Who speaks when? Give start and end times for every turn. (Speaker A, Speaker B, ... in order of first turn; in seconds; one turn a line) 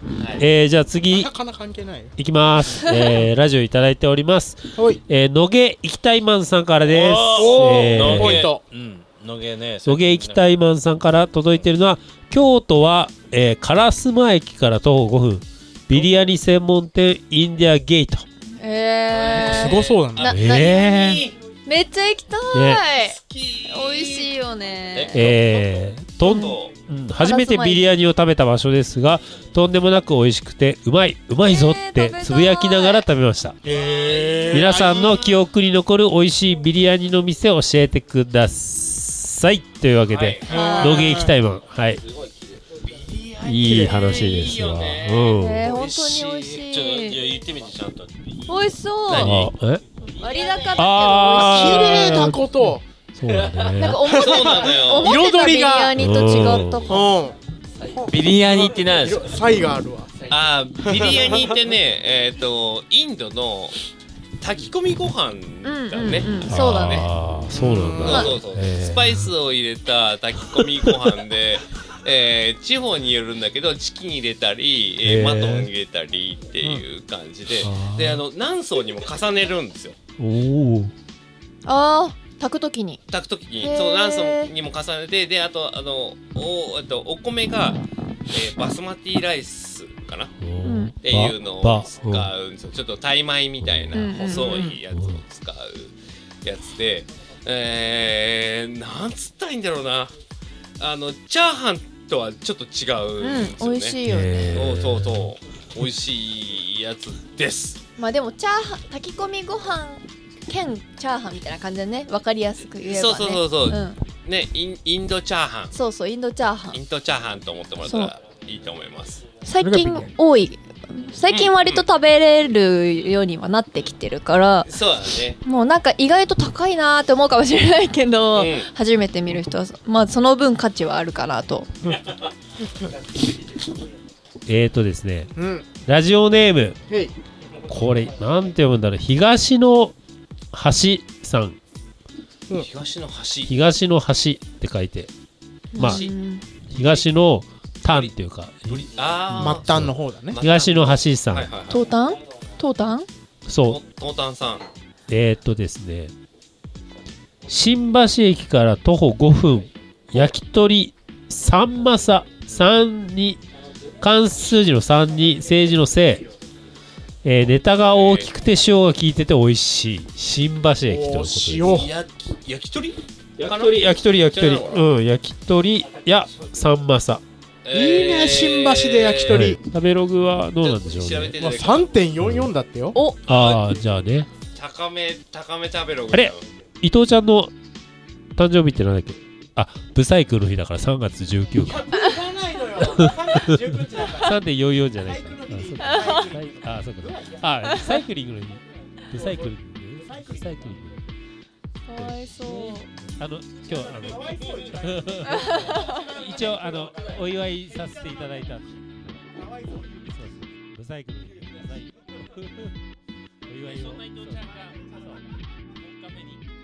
Speaker A: 0.2-0.4
Speaker B: 0.3-1.3
Speaker C: 1.1-2.1
Speaker B: 2.2-8.5
Speaker D: 2.9-3.1
Speaker E: 6.8-10.5
Speaker C: 7.3-8.6
Speaker B: 9.8-18.2
Speaker D: 18.6-20.8
Speaker A: 19.1-21.3
Speaker C: 19.3-20.3
Speaker B: 20.3-21.2
Speaker D: 21.6-25.2
Speaker B: 22.5-22.8
Speaker A: 22.9-24.3
Speaker A: 24.9-25.6
Speaker B: 25.1-33.6
Speaker A: 26.2-26.7
Speaker D: 26.2-26.6
Speaker D: 27.2-27.8
Speaker D: 31.4-33.1
Speaker C: 33.6-35.3
Speaker A: 33.7-35.1
Speaker B: 34.5-42.0
Speaker A: 40.1-40.9
Speaker D: 40.5-41.2
Speaker C: 40.5-41.3
Speaker A: 42.8-45.4
Speaker B: 43.4-45.6
Speaker C: 43.6-44.1
Speaker D: 45.4-47.2
Speaker E: 45.6-48.7
Speaker D: 48.5-49.5
Speaker A: 49.1-49.4
Speaker B: 49.2-49.8
Speaker D: 50.2-52.2
Speaker A: 50.3-50.8
Speaker B: 50.8-54.0
Speaker C: 51.3-52.8
Speaker E: 53.4-53.7
Speaker D: 53.8-57.1
Speaker A: 54.0-55.3
Speaker C: 54.0-55.9
Speaker B: 56.0-57.0
Speaker C: 56.9-57.3
Speaker C: 57.9-60.1
Speaker A: 58.1-59.1
Speaker E: 58.1-59.1
Speaker A: 60.3-63.8
Speaker C: 60.8-61.4
Speaker A: 64.4-67.1
Speaker D: 65.6-67.1
Speaker B: 66.5-69.3
Speaker C: 67.5-68.3
Speaker A: 68.0-80.0
Speaker B: 75.0-75.7
Speaker B: 77.6-78.2
Speaker B: 80.2-80.9
Speaker D: 81.7-83.0
Speaker A: 83.1-90.3
Speaker D: 83.6-84.5
Speaker B: 90.4-92.3
Speaker D: 90.6-90.9
Speaker A: 91.0-100.1
Speaker B: 93.6-94.1
Speaker D: 93.9-94.8
Speaker B: 94.7-95.2
Speaker A: 100.8-104.0
Speaker D: 103.2-104.6
Speaker B: 104.0-105.3
Speaker A: 104.5-107.8
Speaker D: 108.0-114.0
Speaker A: 112.8-115.7
Speaker D: 115.7-116.8
Speaker A: 116.7-119.2
Speaker D: 117.8-118.1
Speaker D: 119.4-124.7
Speaker C: 119.6-120.1
Speaker A: 121.3-121.8
Speaker A: 124.7-125.4
Speaker D: 125.4-131.7
Speaker A: 128.3-128.7
Speaker B: 134.5-135.3
Speaker C: 135.3-135.6
Speaker B: 135.8-136.8
Speaker C: 136.9-137.1
Speaker B: 137.7-139.9
Speaker B: 140.5-141.6
Speaker A: 142.5-143.5
Speaker B: 143.5-145.1
Speaker D: 145.7-146.4
Speaker B: 145.8-146.0
Speaker A: 145.8-146.1
Speaker B: 146.7-151.5
Speaker A: 146.8-147.0
Speaker A: 147.8-148.1
Speaker A: 148.7-149.7
Speaker C: 149.3-150.4
Speaker A: 150.3-151.6
Speaker E: 151.3-151.8
Speaker D: 151.7-153.1
Speaker B: 153.5-153.8
Speaker A: 153.7-154.6
Speaker B: 155.1-156.1
Speaker B: 157.5-163.4
Speaker B: 164.0-166.2
Speaker B: 167.2-171.8
Speaker A: 167.8-168.3
Speaker C: 170.9-171.9
Speaker A: 171.6-174.8
Speaker B: 173.4-177.2
Speaker A: 177.6-179.5
Speaker C: 177.7-179.6
Speaker B: 179.3-181.4
Speaker A: 180.6-181.9
Speaker C: 181.4-183.0
Speaker B: 182.2-182.5
Speaker D: 182.9-183.2
Speaker B: 183.2-184.3
Speaker A: 183.3-183.6
Speaker A: 184.5-186.4
Speaker B: 186.1-187.5
Speaker B: 188.3-191.8
Speaker C: 191.6-194.4
Speaker B: 192.9-201.0
Speaker C: 195.0-197.3
Speaker D: 195.8-196.3
Speaker D: 197.7-198.0
Speaker C: 200.0-200.4
Speaker D: 201.8-202.9
Speaker B: 201.9-208.7
Speaker C: 203.9-205.2
Speaker D: 205.3-206.1
Speaker B: 210.0-212.7
Speaker B: 213.5-214.5
Speaker E: 213.6-214.8
Speaker E: 216.0-216.4